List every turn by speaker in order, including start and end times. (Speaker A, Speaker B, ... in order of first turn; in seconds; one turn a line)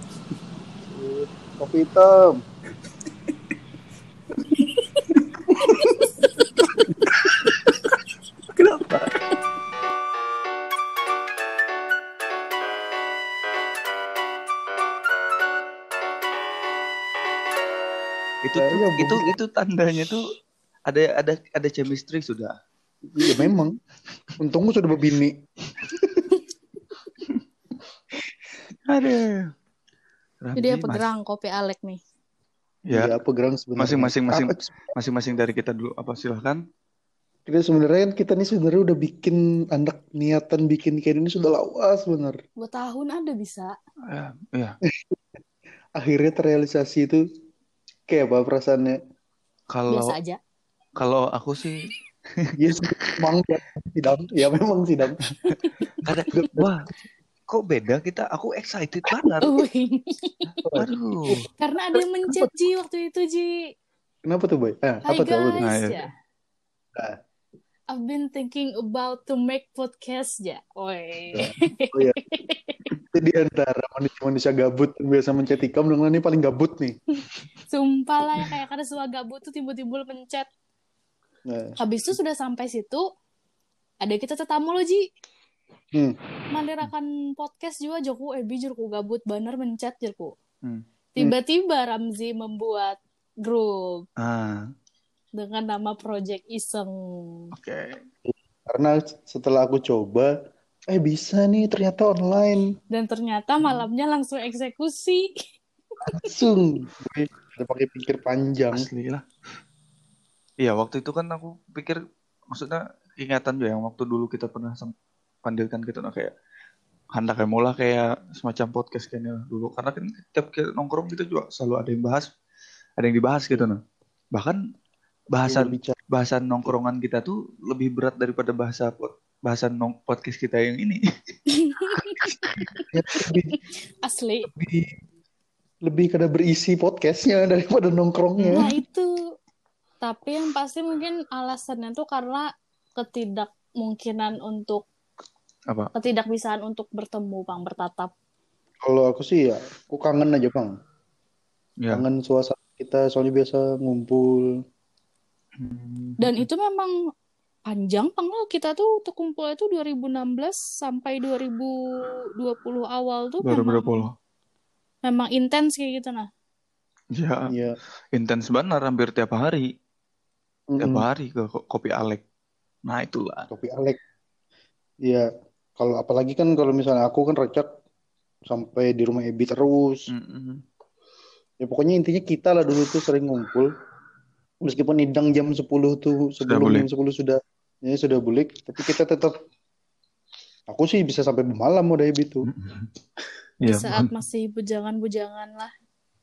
Speaker A: 0.9-2.1
Speaker B: 5.6-6.7
Speaker C: 5.6-5.9
Speaker C: 7.1-8.0
Speaker C: 8.6-9.2
Speaker C: 18.4-20.2
Speaker A: 18.6-19.3
Speaker C: 20.9-22.5
Speaker A: 23.1-23.7
Speaker A: 24.4-25.4
Speaker A: 25.9-26.3
Speaker C: 28.9-29.5
Speaker C: 30.4-31.1
Speaker B: 30.6-32.0
Speaker C: 32.9-33.1
Speaker A: 32.9-34.9
Speaker C: 33.8-36.6
Speaker A: 37.5-42.4
Speaker B: 42.6-43.7
Speaker C: 44.1-44.8
Speaker A: 46.0-47.2
Speaker A: 48.1-49.0
Speaker C: 49.7-50.2
Speaker B: 49.9-50.4
Speaker C: 51.0-51.9
Speaker A: 52.6-55.2
Speaker C: 55.2-56.8
Speaker B: 55.5-55.9
Speaker A: 56.3-56.7
Speaker C: 57.5-59.5
Speaker B: 59.4-60.5
Speaker A: 60.6-61.4
Speaker C: 60.7-61.4
Speaker B: 61.6-63.6
Speaker A: 62.2-62.5
Speaker A: 64.3-65.6
Speaker B: 65.1-66.1
Speaker C: 65.6-66.0
Speaker B: 67.9-72.8
Speaker A: 71.4-72.2
Speaker A: 73.1-77.0
Speaker B: 77.7-80.5
Speaker A: 81.5-81.8
Speaker B: 81.8-83.0
Speaker B: 84.0-85.0
Speaker B: 86.5-90.3
Speaker B: 91.1-94.0
Speaker C: 94.2-94.7
Speaker B: 95.4-97.5
Speaker C: 97.5-98.0
Speaker A: 98.2-100.3
Speaker A: 100.9-102.6
Speaker B: 102.9-105.3
Speaker A: 106.0-108.9
Speaker C: 108.7-109.2
Speaker C: 110.6-112.0
Speaker C: 112.5-114.9
Speaker C: 115.4-116.3
Speaker C: 117.1-122.3
Speaker C: 123.0-123.8
Speaker C: 125.3-131.0
Speaker A: 125.5-126.0
Speaker B: 131.5-132.8
Speaker C: 132.2-132.5
Speaker A: 132.5-133.6
Speaker B: 133.5-134.5
Speaker A: 134.5-134.9
Speaker A: 135.8-138.7
Speaker C: 138.4-138.7
Speaker B: 138.5-139.1
Speaker B: 140.0-142.4
Speaker B: 143.0-144.8
Speaker B: 145.9-148.1
Speaker A: 148.8-150.7
Speaker A: 151.9-154.4
Speaker C: 155.6-156.4
Speaker B: 156.2-156.9
Speaker B: 157.7-161.7
Speaker B: 162.4-164.1
Speaker C: 163.4-164.1
Speaker B: 165.0-166.3
Speaker C: 167.1-167.5
Speaker A: 167.5-167.8
Speaker C: 168.1-169.7
Speaker A: 170.7-171.1
Speaker C: 170.8-172.2
Speaker C: 172.9-173.5
Speaker A: 173.5-174.0
Speaker A: 175.8-177.7
Speaker A: 178.5-180.1
Speaker C: 180.1-180.6
Speaker A: 181.6-183.7
Speaker A: 184.6-189.3
Speaker C: 186.4-186.9
Speaker A: 190.7-192.5
Speaker C: 192.5-192.9
Speaker C: 193.6-194.1
Speaker B: 193.7-195.7